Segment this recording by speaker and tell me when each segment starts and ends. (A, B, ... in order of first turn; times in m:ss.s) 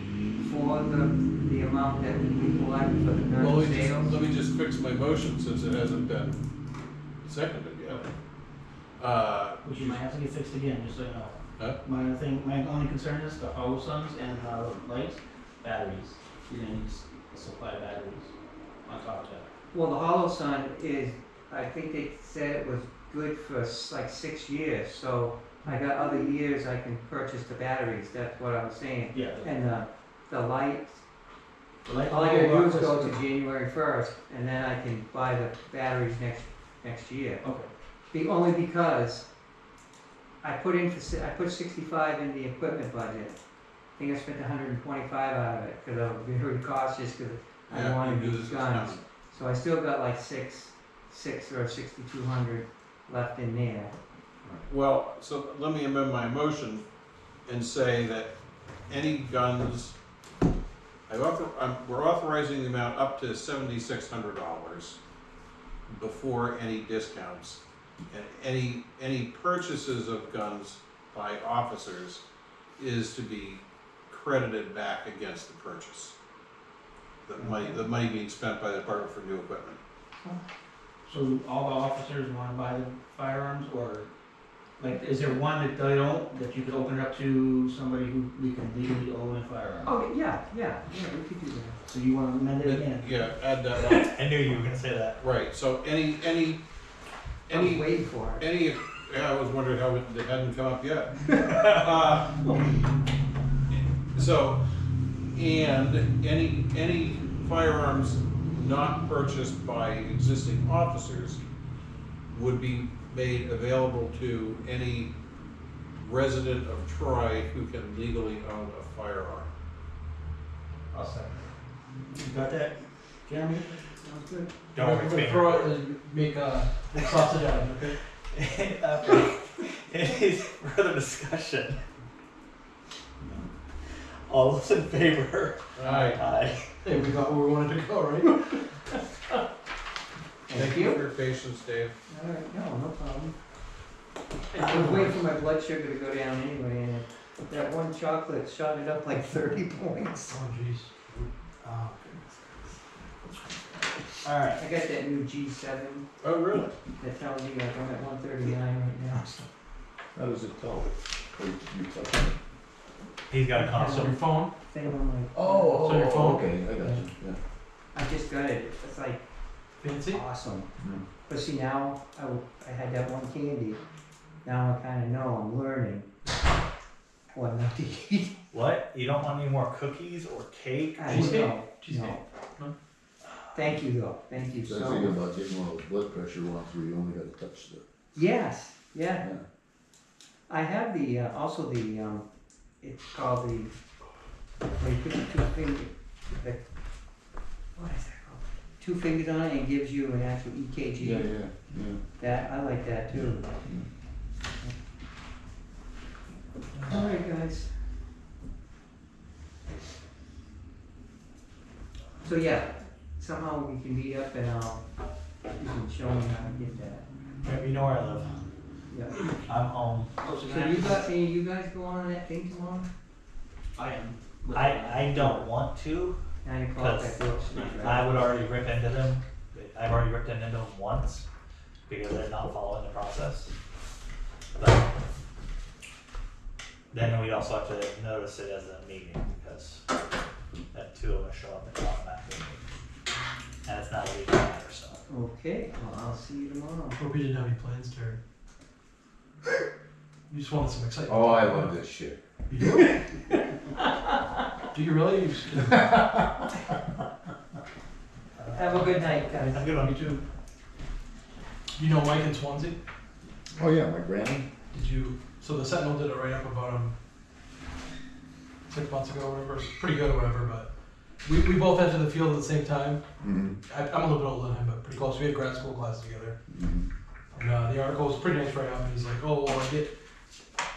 0:00.4-0:04.2 A
0:03.4-0:06.4 B
0:07.2-0:08.1 B
0:09.0-0:10.0 B
0:09.6-0:18.3 C
0:18.9-0:19.5 C
0:19.7-0:31.0 A
0:29.1-0:29.6 C
0:31.8-0:33.2 C
0:32.1-0:37.4 A
0:37.4-0:37.7 C
0:38.1-0:39.3 A
0:40.4-0:43.4 A
0:44.0-0:53.9 A
0:47.7-0:49.0 B
0:54.7-0:56.8 B
0:57.5-0:58.3 B
0:58.9-1:00.0 B
1:01.1-1:05.0 B
1:05.9-1:12.2 B
1:12.8-1:16.2 B
1:17.3-1:19.8 B
1:17.4-1:17.8 A
1:21.1-1:24.1 C
1:24.8-1:29.9 C
1:29.9-1:31.8 A
1:31.9-1:33.1 C
1:32.6-1:34.2 B
1:33.8-1:35.2 D
1:35.2-1:36.6 B
1:37.5-1:42.5 B
1:37.5-1:38.4 A
1:41.4-1:41.7 D
1:43.7-1:44.6 B
1:45.3-1:51.4 B
1:52.3-1:55.1 B
1:56.0-1:59.5 B
2:00.9-2:01.4 C
2:02.2-2:03.7 C
2:04.0-2:04.6 A
2:04.7-2:05.8 D
2:04.8-2:08.0 E
2:07.0-2:07.2 D
2:08.3-2:11.8 D
2:13.8-2:16.7 D
2:15.8-2:16.2 B
2:16.8-2:19.4 E
2:20.5-2:21.0 A
2:20.5-2:22.0 B
2:22.1-2:23.4 A
2:24.5-2:25.2 E
2:24.6-2:30.4 A
2:30.3-2:30.9 E
2:31.6-2:32.1 D
2:34.2-2:34.6 D
2:34.6-2:36.1 A
2:36.2-2:36.8 B
2:37.0-2:39.4 A
2:40.2-2:42.4 F
2:43.3-2:44.2 D
2:43.6-2:44.1 A
2:43.6-2:44.5 E
2:44.6-2:45.9 A
2:45.3-2:47.4 F
2:45.8-2:46.5 E
2:46.8-2:47.0 A
2:47.9-2:49.2 A
2:49.8-2:50.2 E
2:50.1-2:50.7 A
2:50.8-2:51.0 F
2:51.3-2:53.8 A
2:54.4-2:56.1 A
2:57.3-2:58.4 A
2:58.5-3:01.4 D
3:01.0-3:02.2 A
3:01.1-3:02.7 E
3:03.5-3:05.2 A
3:04.7-3:07.8 F
3:08.1-3:09.2 A
3:10.5-3:12.2 A
3:12.8-3:13.7 A
3:14.8-3:16.6 A
3:17.8-3:21.3 A
3:21.0-3:22.0 F
3:22.2-3:23.5 A
3:23.5-3:23.9 F
3:26.8-3:27.7 A
3:32.2-3:34.8 A
3:35.6-3:37.0 A
3:37.4-3:38.3 D
3:38.9-3:39.2 A
3:39.5-3:40.1 D
3:40.2-3:41.1 C
3:40.4-3:42.9 A
3:43.8-3:45.5 C
3:44.5-3:46.2 D
3:46.4-3:48.1 A
3:46.8-3:51.3 D
3:47.5-3:48.4 C
3:51.9-3:53.5 D
3:54.6-3:54.9 D
3:56.9-3:59.8 D
4:00.7-4:02.6 D
4:03.6-4:05.0 D
4:05.1-4:07.0 A
4:07.0-4:08.2 E
4:10.3-4:11.8 E
4:11.1-4:12.2 F
4:12.5-4:13.2 E
4:14.7-4:16.1 E
4:15.8-4:16.3 F
4:18.4-4:20.2 D
4:18.5-4:19.7 A
4:19.9-4:20.2 C
4:21.8-4:22.8 E
4:23.5-4:24.5 F
4:24.7-4:27.0 E
4:28.7-4:30.7 E
4:31.2-4:33.0 E
4:33.2-4:33.6 F
4:33.7-4:36.4 E
4:36.5-4:36.9 F
4:37.4-4:39.9 E